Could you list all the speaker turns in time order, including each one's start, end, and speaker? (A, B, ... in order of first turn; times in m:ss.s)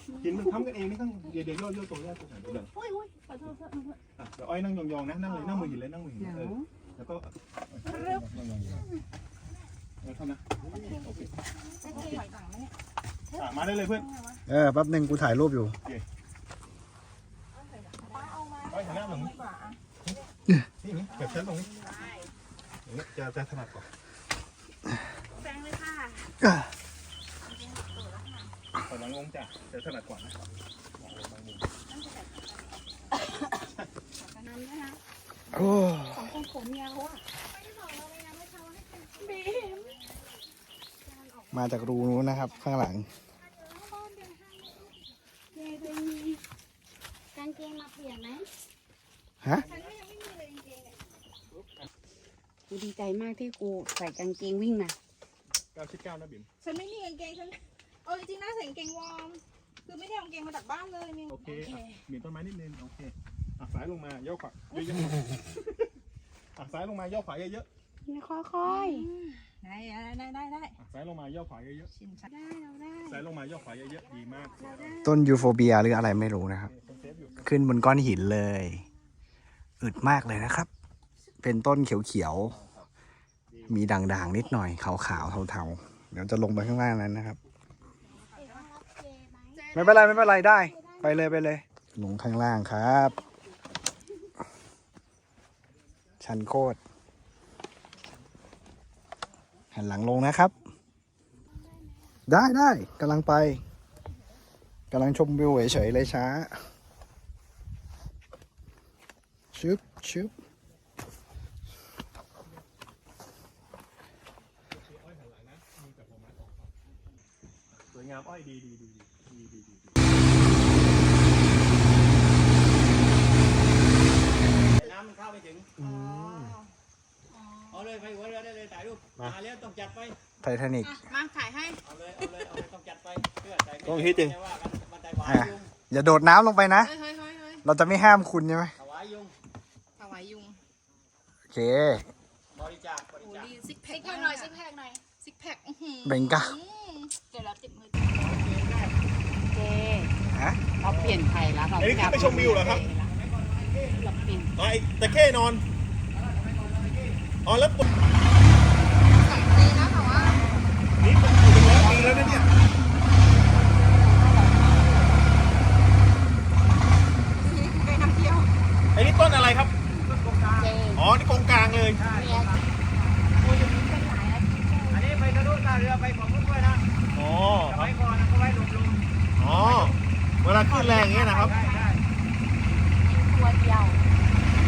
0:00.2-0:02.7 A
0:02.7-0:04.0 B
0:04.2-0:08.8 A
0:06.3-0:06.6 C
0:07.8-0:08.2 B
0:10.0-0:11.3 A
0:10.7-0:11.0 B
0:11.8-0:12.7 B
0:13.4-0:14.1 A
0:13.4-0:14.4 B
0:14.5-0:15.8 D
0:17.8-0:19.8 B
0:18.7-0:19.4 A
0:20.8-0:21.9 A
0:21.3-0:22.3 B
0:22.9-0:23.9 A
0:25.4-0:26.3 B
0:26.4-0:26.7 D
0:27.5-0:28.5 B
0:28.8-0:30.4 A
0:31.0-0:31.7 A
0:31.9-0:32.6 B
0:34.2-0:35.0 B
0:35.5-0:36.4 D
0:36.1-0:40.2 B
0:41.2-0:41.6 B
0:41.5-0:43.1 D
0:43.6-0:44.8 B
0:45.6-0:46.4 B
0:47.4-0:48.5 C
0:49.7-0:50.9 B
0:52.7-0:55.0 C
0:55.7-0:56.5 A
0:56.6-1:02.0 B
1:01.3-1:05.9 A
1:06.6-1:07.7 A
1:08.1-1:09.1 C
1:08.6-1:10.8 B
1:10.8-1:11.9 A
1:12.0-1:13.1 B
1:13.0-1:15.0 A
1:15.0-1:16.7 D
1:16.7-1:17.5 A
1:17.4-1:18.8 D
1:19.8-1:20.7 D
1:21.4-1:22.6 D
1:22.5-1:22.9 A
1:23.5-1:23.8 A
1:23.7-1:27.4 D
1:28.4-1:29.7 C
1:28.4-1:28.6 B
1:29.6-1:30.5 B
1:29.7-1:33.2 D
1:30.6-1:31.1 C
1:36.2-1:36.8 D
1:39.7-1:40.5 D
1:42.3-1:43.6 D
1:44.9-1:46.6 D
1:49.5-1:50.3 D
1:54.7-1:56.7 A
1:57.8-2:00.0 A
2:04.5-2:05.7 E
2:05.8-2:06.6 A
2:05.8-2:06.6 B
2:07.3-2:07.9 B
2:07.7-2:10.2 E
2:10.4-2:11.0 D
2:10.8-2:11.8 B
2:11.8-2:15.7 E
2:13.8-2:14.4 A
2:15.2-2:17.0 D
2:16.8-2:17.6 B
2:17.6-2:18.7 D
2:18.8-2:19.3 E
2:20.0-2:20.6 B
2:21.5-2:22.0 D
2:22.5-2:23.6 E
2:23.2-2:28.1 B
2:24.0-2:24.6 C
2:26.0-2:26.6 D
2:28.2-2:29.0 E
2:29.5-2:30.1 C
2:30.3-2:30.6 D
2:30.8-2:34.5 E
2:30.8-2:32.9 A
2:30.8-2:33.1 C
2:34.2-2:34.5 C
2:34.6-2:35.6 A
2:36.1-2:37.2 E
2:37.4-2:37.9 A
2:39.2-2:40.4 B
2:40.1-2:40.6 E
2:41.0-2:42.5 A
2:41.7-2:42.5 C
2:43.5-2:45.2 C
2:47.4-2:48.4 C
2:47.9-2:48.5 B
2:48.9-2:49.8 A
2:50.0-2:50.8 E
2:50.6-2:51.0 C
2:51.0-2:52.1 A
2:52.0-2:52.7 E
2:52.1-2:52.8 C
2:53.4-2:54.7 C
2:53.4-2:55.0 B
2:54.9-2:56.8 E
2:57.1-2:57.9 A
2:57.7-3:00.0 E
2:59.4-3:01.5 A
3:00.7-3:01.9 B
3:01.3-3:02.0 E
3:03.0-3:04.0 B